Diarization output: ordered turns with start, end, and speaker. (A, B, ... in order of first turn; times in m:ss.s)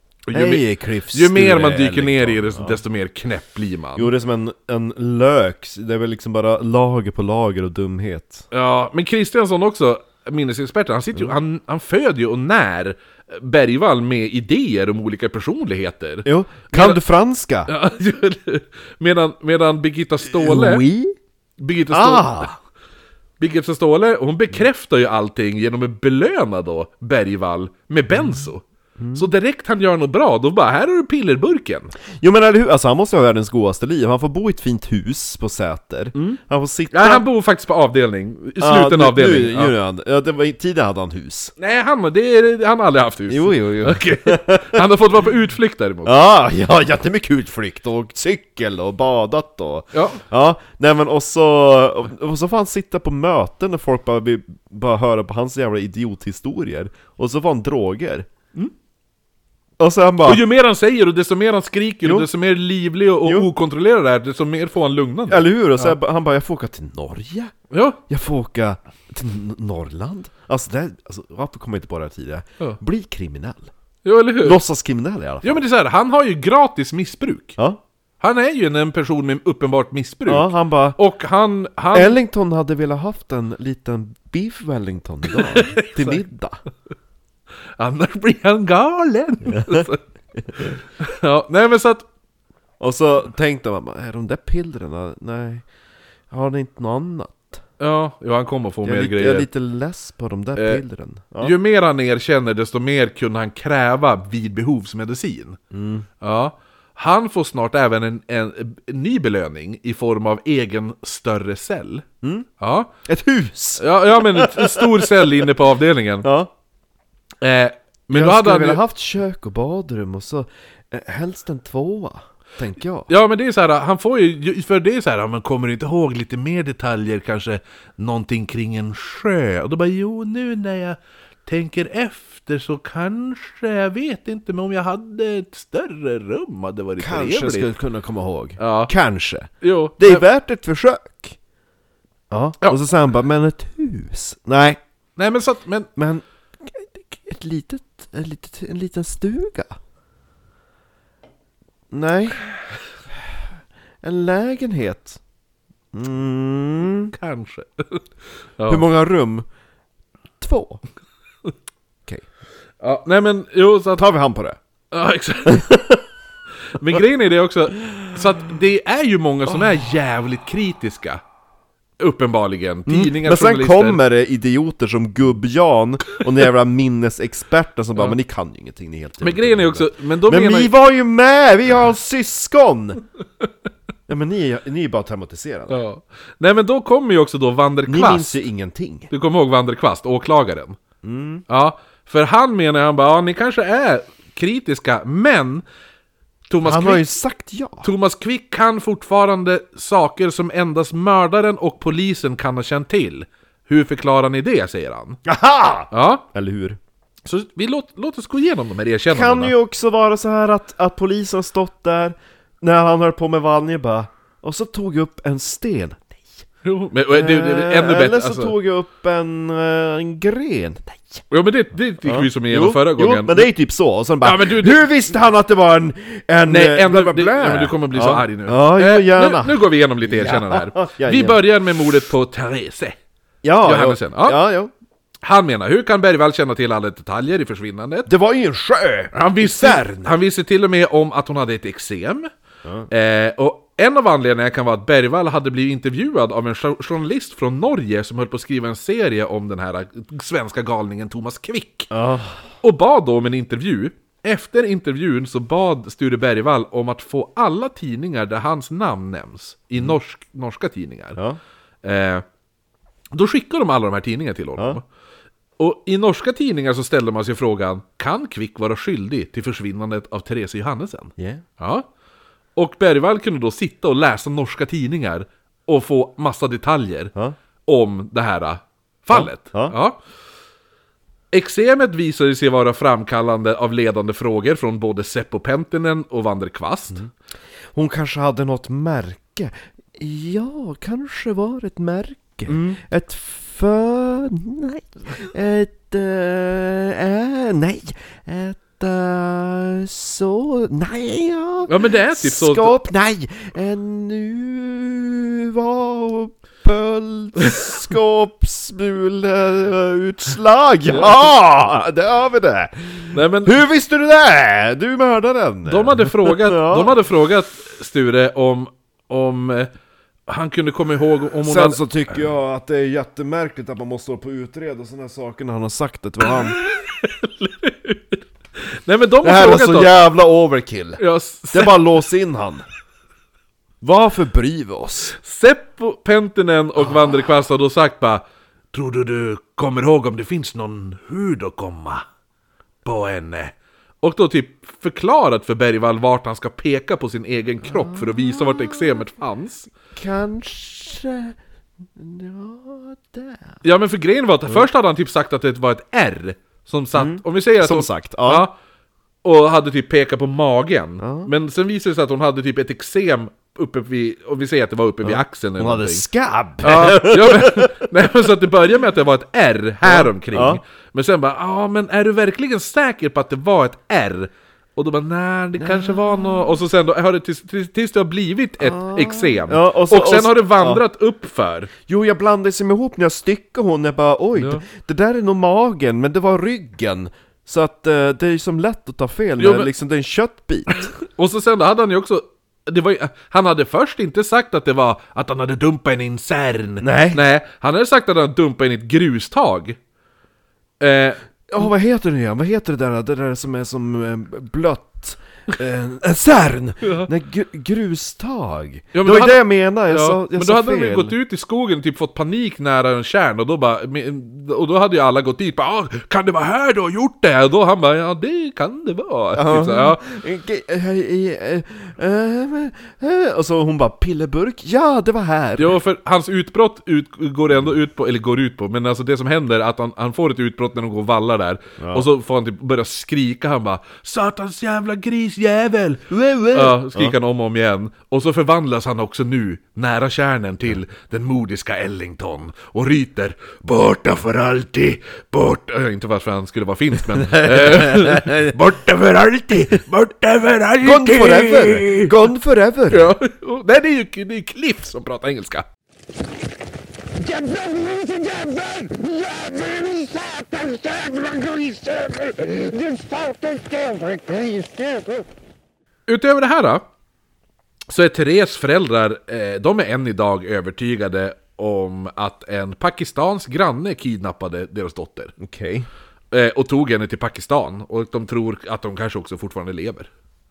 0:00.3-0:04.1 A
0:00.3-0:02.8 B
0:04.0-0:08.5 B
0:08.5-0:17.0 A
0:16.2-0:17.7 B
0:17.7-0:20.8 A
0:20.3-0:21.2 B
0:21.6-0:22.6 A
0:21.9-0:22.5 B
0:23.4-0:31.9 A
0:28.1-0:28.5 B
0:29.0-0:29.2 B
0:32.2-0:37.2 B
0:36.9-0:39.7 A
0:38.6-0:41.5 B
0:41.6-0:46.2 A
0:43.3-0:44.9 B
0:46.0-0:58.3 B
0:49.9-0:50.2 A
0:59.8-1:00.5 B
1:00.2-1:06.0 A
1:05.3-1:07.5 B
1:07.7-1:08.0 A
1:08.1-1:13.7 B
1:14.0-1:14.6 A
1:14.4-1:15.6 B
1:15.4-1:17.6 A
1:18.2-1:22.2 A
1:20.3-1:21.0 B
1:21.9-1:26.6 B
1:25.3-1:26.2 A
1:27.8-1:30.0 A
1:29.5-1:29.8 B
1:30.6-1:32.1 A
1:32.8-1:35.7 B
1:36.3-1:37.6 B
1:37.8-1:39.5 A
1:38.8-1:41.5 B
1:40.6-1:40.8 A
1:41.4-1:45.6 A
1:45.7-1:46.1 B
1:46.2-1:52.1 A
1:52.2-1:52.5 B
1:52.6-1:52.9 A
1:53.0-1:55.4 B
1:53.8-1:56.3 A
1:56.2-1:56.5 B
1:57.4-1:58.8 A
1:58.1-2:03.1 B
2:03.1-2:17.7 A
2:17.0-2:21.4 B
2:18.6-2:18.9 A
2:19.6-2:20.2 A
2:22.3-2:24.8 B
2:25.2-2:25.9 A
2:26.0-2:29.8 B
2:31.9-2:32.4 B
2:34.0-2:35.2 B
2:35.9-2:37.1 B
2:37.1-2:38.0 A
2:38.6-2:38.8 A
2:38.7-2:39.5 B
2:40.4-2:40.8 B
2:42.8-2:44.1 A
2:44.0-2:44.6 B
2:44.9-2:45.9 A
2:45.5-2:46.0 B
2:46.7-2:51.2 A
2:52.0-2:54.0 A
2:52.9-3:03.0 B
2:59.2-3:00.7 A
3:04.1-3:05.8 B
3:05.7-3:08.4 A
3:07.9-3:09.1 B
3:09.1-3:10.8 A
3:11.0-3:11.4 B
3:11.5-3:15.6 A
3:16.5-3:17.0 A
3:16.6-3:17.9 B
3:17.8-3:25.2 A
3:25.2-3:26.8 B
3:25.9-3:26.2 A
3:27.3-3:29.5 A
3:29.1-3:36.3 B
3:36.6-3:38.5 A
3:37.1-3:41.2 B
3:41.3-3:43.5 A
3:42.0-3:51.4 B
3:44.2-3:44.8 A
3:46.5-3:53.0 A
3:53.4-3:54.7 B
3:53.6-3:54.4 A
3:55.2-3:58.1 A
3:58.1-4:00.1 B
3:59.1-4:02.3 A
4:02.9-4:11.9 A
4:11.9-4:12.4 B
4:12.6-4:21.2 A
4:21.8-4:22.2 A
4:23.1-4:24.8 A
4:25.6-4:31.9 A
4:31.2-4:31.4 B
4:32.6-4:37.1 A
4:37.7-4:40.0 A
4:39.1-4:39.8 B
4:41.3-4:47.0 A
4:47.7-5:17.0 B
4:52.5-4:52.8 A
5:01.7-5:02.8 A
5:13.1-5:13.6 A
5:15.7-5:19.7 A
5:20.3-5:21.8 A
5:21.4-5:26.6 B
5:26.5-5:29.9 A
5:29.2-5:32.6 B
5:31.0-5:31.8 A
5:33.8-5:35.2 B
5:35.2-5:42.0 A
5:42.8-5:49.7 A
5:47.6-5:49.0 B
5:49.9-5:51.4 B
5:52.0-5:53.6 B
5:53.6-5:58.5 A
5:57.0-5:58.5 B
5:59.2-6:06.0 A
6:01.0-6:01.3 B
6:05.0-6:07.8 B
6:06.6-6:21.7 A
6:09.8-6:10.6 B
6:15.6-6:16.6 B
6:18.6-6:20.8 B
6:21.9-6:30.9 B
6:24.4-6:24.6 A
6:29.4-6:29.7 A
6:31.1-6:39.8 A
6:36.8-6:37.2 B
6:40.8-6:41.7 A
6:41.5-6:51.1 B
6:46.8-6:47.1 A
6:48.9-7:00.0 A
6:59.4-7:05.8 B
7:05.6-7:32.2 A
7:11.8-7:12.1 B
7:16.1-7:17.2 B
7:27.2-7:28.6 B
7:30.8-7:33.1 B
7:32.9-7:35.7 A
7:37.2-7:45.3 C
7:46.1-7:46.8 A
7:47.9-7:55.3 A
7:55.4-7:55.9 B
7:56.3-8:00.1 A